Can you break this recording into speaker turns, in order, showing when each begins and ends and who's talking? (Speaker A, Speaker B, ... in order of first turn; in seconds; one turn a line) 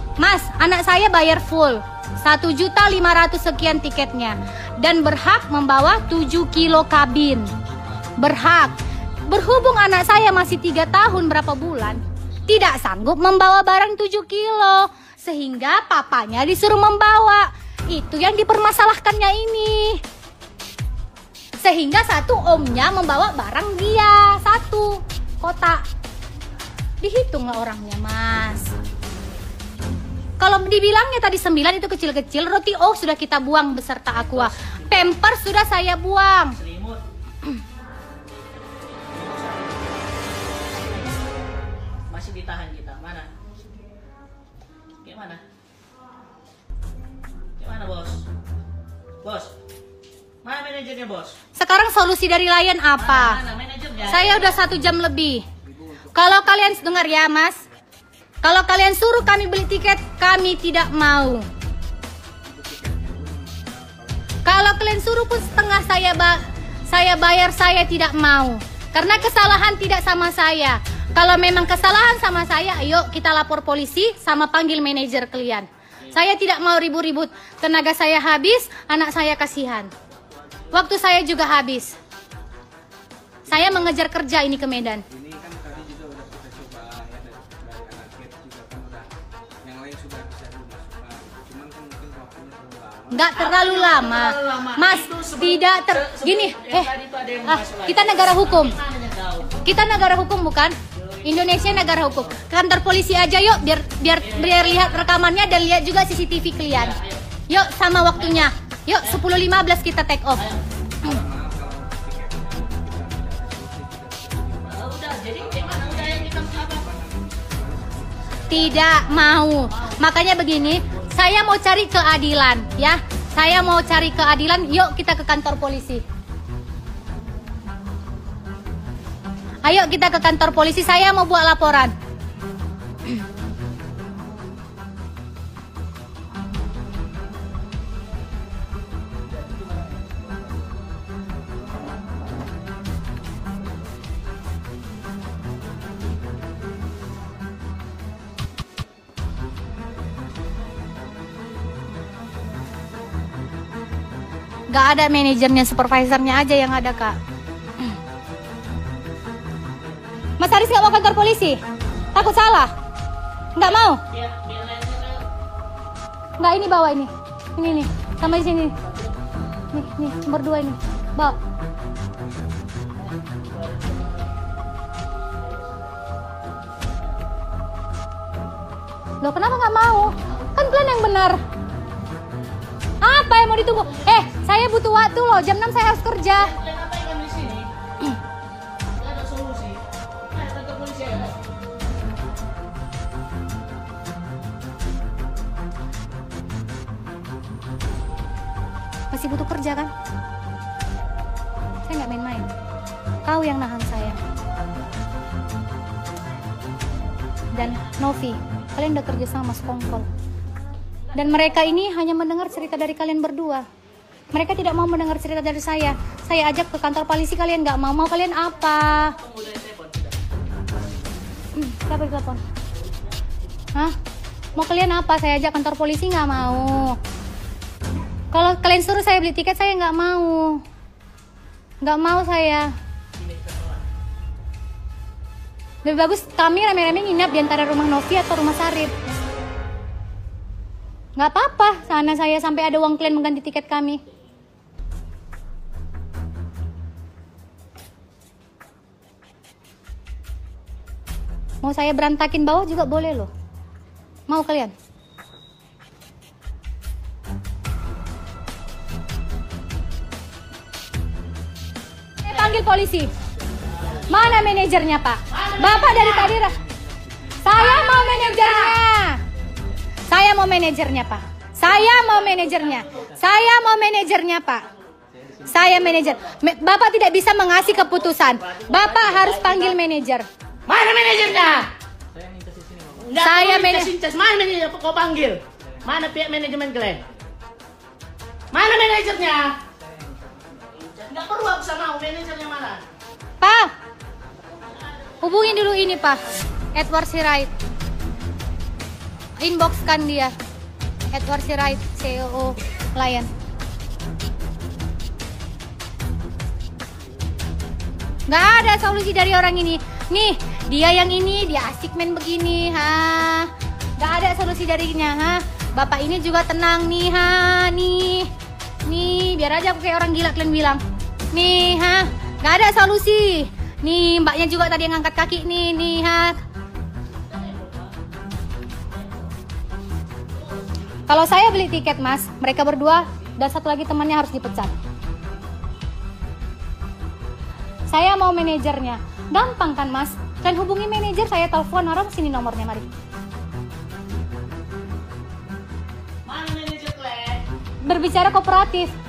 Speaker A: 0.2-7.5
Speaker A: 8.2-8.8
Speaker A: 9.3-20.0
Speaker A: 21.6-25.8
Speaker A: 27.0-28.7
Speaker A: 30.4-36.6
Speaker B: 34.2-35.1
Speaker B: 36.6-37.0
Speaker B: 39.1-41.1
Speaker B: 42.1-43.3
Speaker B: 45.0-45.4
Speaker B: 47.6-48.2
Speaker B: 49.2-49.5
Speaker B: 50.4-51.4
Speaker A: 51.6-53.4
Speaker B: 53.0-54.6
Speaker A: 54.1-55.5
Speaker C: 55.6-57.5
Speaker A: 56.1-57.6
Speaker A: 58.4-61.5
Speaker C: 62.5-64.4
Speaker A: 64.5-79.9
Speaker A: 80.7-82.0
Speaker A: 83.5-85.0
Speaker C: 85.1-89.1
Speaker C: 89.6-93.3
Speaker A: 93.1-96.9
Speaker B: 93.3-99.7
Speaker A: 97.5-98.8
Speaker A: 99.6-107.0
Speaker B: 100.9-102.3
Speaker B: 104.2-105.1
Speaker B: 106.7-107.2
Speaker A: 107.5-110.4
Speaker B: 108.2-108.5
Speaker C: 111.0-119.0
Speaker B: 114.7-116.9
Speaker A: 118.5-126.0
Speaker B: 119.7-121.1
Speaker A: 129.6-131.9
Speaker A: 154.7-157.2
Speaker A: 160.4-161.6
Speaker A: 162.1-162.7
Speaker A: 163.6-164.0
Speaker B: 164.1-165.2
Speaker A: 166.4-168.8
Speaker B: 168.8-169.2
Speaker A: 169.7-171.4
Speaker B: 173.1-174.2
Speaker A: 179.2-181.4
Speaker A: 183.0-186.5
Speaker B: 183.7-184.3
Speaker B: 186.3-187.7
Speaker B: 189.0-191.4
Speaker A: 199.1-199.9
Speaker A: 201.9-202.5
Speaker A: 203.2-204.2
Speaker A: 207.5-210.1
Speaker A: 211.1-213.7
Speaker A: 214.3-219.2
Speaker B: 219.2-220.2
Speaker A: 221.6-222.4
Speaker A: 224.6-227.0
Speaker A: 228.3-230.6
Speaker A: 231.8-232.7
Speaker B: 233.2-233.8
Speaker A: 235.8-238.9
Speaker A: 241.2-244.0
Speaker A: 251.6-253.3
Speaker A: 254.3-254.7
Speaker A: 262.2-263.1
Speaker B: 262.3-262.6
Speaker B: 263.8-264.5
Speaker A: 264.1-266.6
Speaker B: 265.3-266.4
Speaker C: 266.6-267.4
Speaker A: 267.4-269.2
Speaker B: 267.5-268.6
Speaker A: 270.1-274.6
Speaker B: 271.6-273.3
Speaker A: 275.5-280.3
Speaker B: 275.8-276.1
Speaker B: 277.6-279.8
Speaker B: 280.7-281.7
Speaker C: 282.1-283.0
Speaker B: 283.0-287.0
Speaker A: 283.2-283.9
Speaker B: 288.5-289.6
Speaker C: 289.8-290.8
Speaker B: 290.8-292.8
Speaker A: 293.4-293.7
Speaker B: 295.0-295.8
Speaker A: 295.2-296.2
Speaker A: 296.8-297.5
Speaker A: 299.4-300.3
Speaker A: 301.1-303.3
Speaker A: 308.3-318.3
Speaker A: 318.9-320.8
Speaker A: 321.3-326.4
Speaker B: 327.3-327.9
Speaker B: 329.0-329.2
Speaker B: 330.6-331.0
Speaker A: 331.1-334.7
Speaker A: 337.9-342.9
Speaker B: 346.3-347.4
Speaker A: 347.8-348.9